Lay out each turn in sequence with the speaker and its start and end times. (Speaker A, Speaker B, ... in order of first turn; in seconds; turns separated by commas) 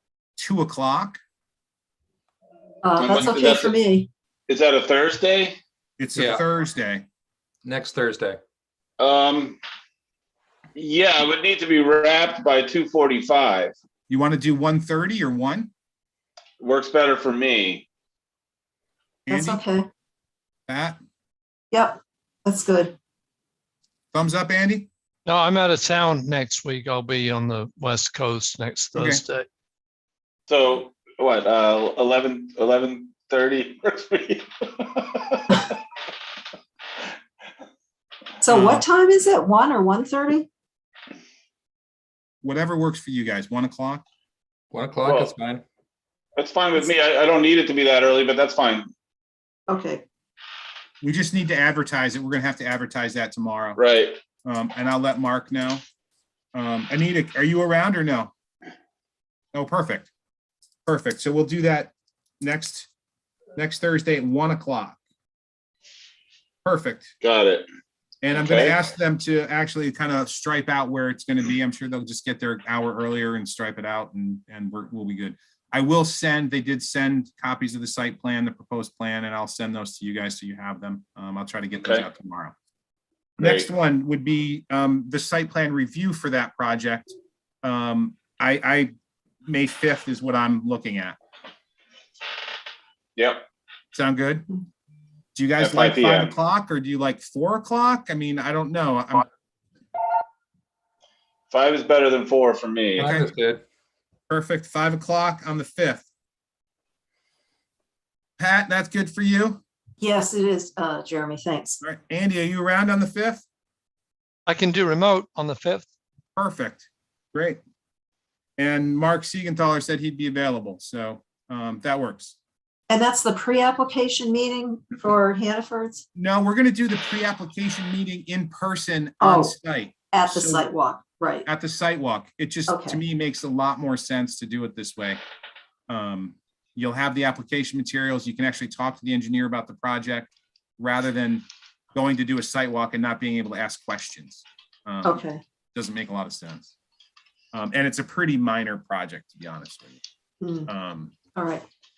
Speaker A: 0.4-1.2, Speaker B: 2.8-4.1, Speaker C: 3.0-3.8, Speaker C: 4.5-5.6, Speaker A: 6.0-7.0, Speaker D: 6.1-6.4, Speaker D: 7.6-8.4, Speaker C: 9.0-9.6, Speaker C: 10.8-13.7, Speaker A: 14.1-15.7, Speaker C: 16.6-17.9, Speaker A: 19.2-19.6, Speaker B: 19.3-19.9, Speaker A: 20.7-21.0, Speaker B: 21.7-22.9, Speaker A: 24.1-24.9, Speaker E: 25.2-29.4, Speaker A: 28.9-29.2, Speaker C: 30.5-35.7, Speaker B: 38.4-40.5, Speaker A: 38.5-38.8, Speaker A: 42.4-44.0, Speaker D: 44.7-45.6, Speaker C: 45.0-45.3, Speaker C: 46.4-48.9, Speaker B: 49.7-50.0, Speaker A: 51.0-53.8, Speaker C: 53.8-54.2, Speaker A: 54.4-55.8, Speaker A: 56.5-58.3, Speaker A: 59.5-60.1, Speaker A: 60.9-62.9, Speaker A: 63.5-65.0, Speaker A: 66.6-67.1, Speaker C: 67.2-67.7, Speaker A: 68.2-82.5, Speaker C: 68.3-68.8, Speaker C: 81.8-82.0, Speaker C: 83.4-83.7, Speaker A: 83.4-88.9, Speaker A: 89.5-91.2, Speaker C: 93.2-93.4, Speaker A: 93.9-94.5, Speaker A: 95.3-99.2, Speaker C: 95.6-96.3, Speaker C: 101.5-103.1, Speaker D: 103.0-103.6, Speaker A: 103.0-103.3, Speaker A: 104.3-106.0, Speaker A: 108.4-109.6, Speaker B: 110.0-111.8, Speaker A: 111.8-113.4, Speaker E: 114.5-115.9, Speaker A: 116.3-117.6, Speaker A: 118.6-122.3, Speaker B: 122.9-126.0, Speaker A: 126.1-130.7, Speaker B: 129.2-129.5, Speaker B: 130.1-131.4, Speaker A: 131.4-135.2, Speaker B: 132.7-133.0, Speaker A: 135.9-146.7, Speaker B: 145.0-145.4, Speaker A: 147.5-150.0, Speaker B: 150.4-150.7, Speaker A: 150.7-151.1, Speaker B: 151.3-151.6